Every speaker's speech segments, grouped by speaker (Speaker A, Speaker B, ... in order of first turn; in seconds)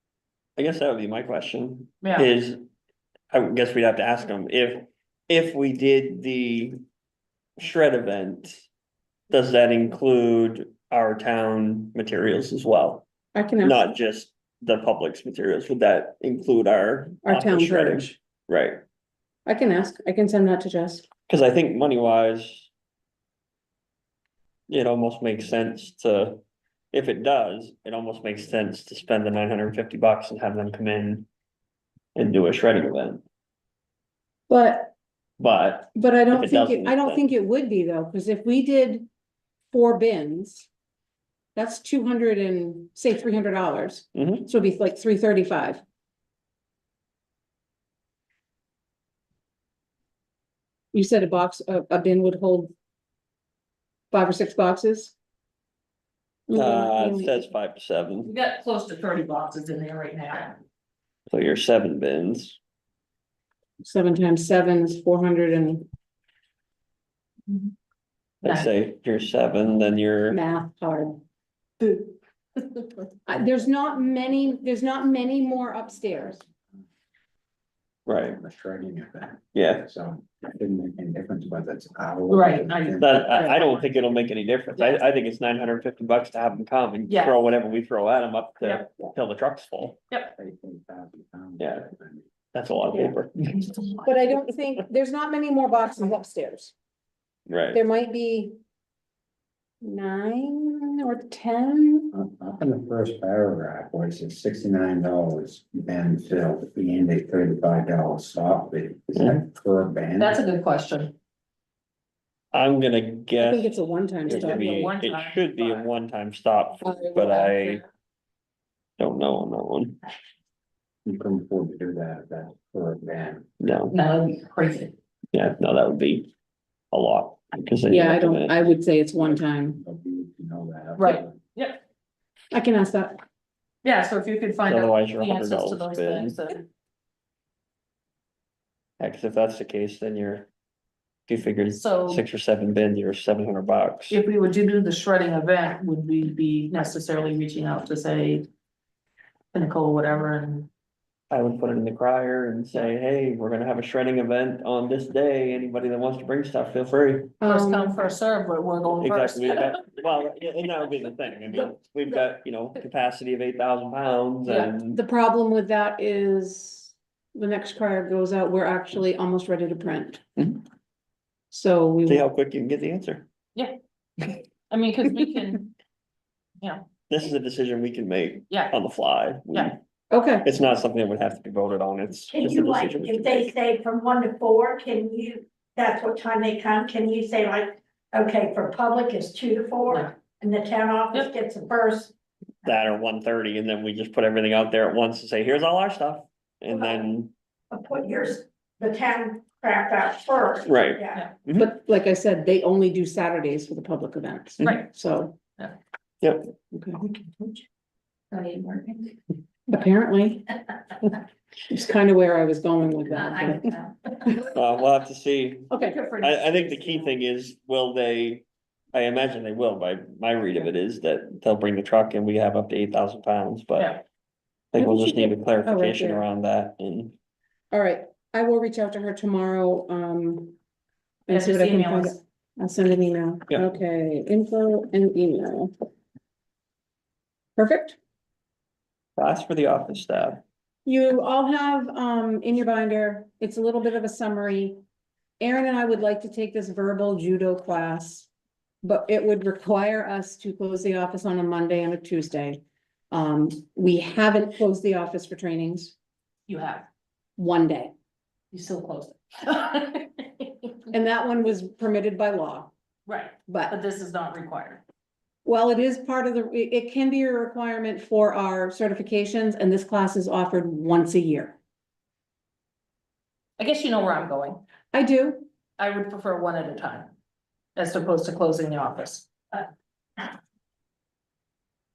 Speaker A: 0.6-2.6, 3.3-6.8, 7.6-8.6, 9.3-13.0, 13.6-18.8, 21.3-22.7, 24.7-26.4, 26.9-31.3, 32.1-33.2, 35.4-37.2, 44.1-44.5, 56.5-58.3, 61.3-62.6, 68.4-70.4, 78.1-78.4, 79.5-79.8, 83.0-90.0, 91.6-91.9, 92.5-93.8, 97.5-97.8, 112.5-117.8, 119.0-120.0, 123.6-123.9, 125.3-126.3, 126.9-128.7, 134.7-136.4, 139.0-140.5, 141.3-144.2, 151.3-157.3, 159.0-165.0, 172.1-173.2, 177.1-179.8, 180.4-183.5, 192.6-197.3, 200.7-201.7, 206.2-206.5, 214.5-218.4, 218.9-223.9, 224.7-227.1, 239.2-240.4
Speaker B: 2.0-2.3, 58.2-60.6, 68.4-68.7, 82.3-83.7, 84.8-85.0, 87.1-87.4, 110.2-111.1, 114.3-115.9, 123.9-124.9, 131.0-131.8, 133.8-136.6, 141.7-142.2, 144.1-148.5, 149.5-150.7, 157.4-159.7, 164.4-164.7, 174.7-175.7, 176.6-176.8, 208.3-209.1, 213.2-214.3, 215.7-217.2, 231.3-232.2, 256.5-256.9, 258.5-260.2, 263.1-264.8, 273.6-274.6, 275.8-277.1, 277.8-279.3
Speaker C: 13.3-13.8, 17.2-18.1, 19.4-21.0, 34.5-34.9, 35.9-39.1, 39.7-40.7, 41.5-45.8, 50.9-52.7, 54.1-55.1, 56.5-57.4, 63.8-65.9, 70.3-71.2, 73.2-76.4, 94.0-96.7, 97.7-98.5, 99.8-102.1, 113.4-114.7, 127.8-129.8, 132.5-133.2, 157.4-158.0, 164.9-170.6, 171.5-172.2, 180.1-180.5, 201.6-205.4, 206.7-207.0, 209.7-210.5, 211.7-213.8, 215.7-216.0, 224.8-226.2, 227.7-230.6, 231.3-235.7, 237.6-238.0, 240.8-244.8, 245.4-248.3, 248.8-255.9, 257.4-257.9, 260.9-262.7, 263.5-263.8, 265.4-271.6, 274.9-275.4
Speaker D: 78.3-83.2, 90.3-92.3, 102.1-110.4, 121.0-123.5, 129.2-131.3
Speaker E: 182.3-192.1, 196.7-197.0, 197.7-201.2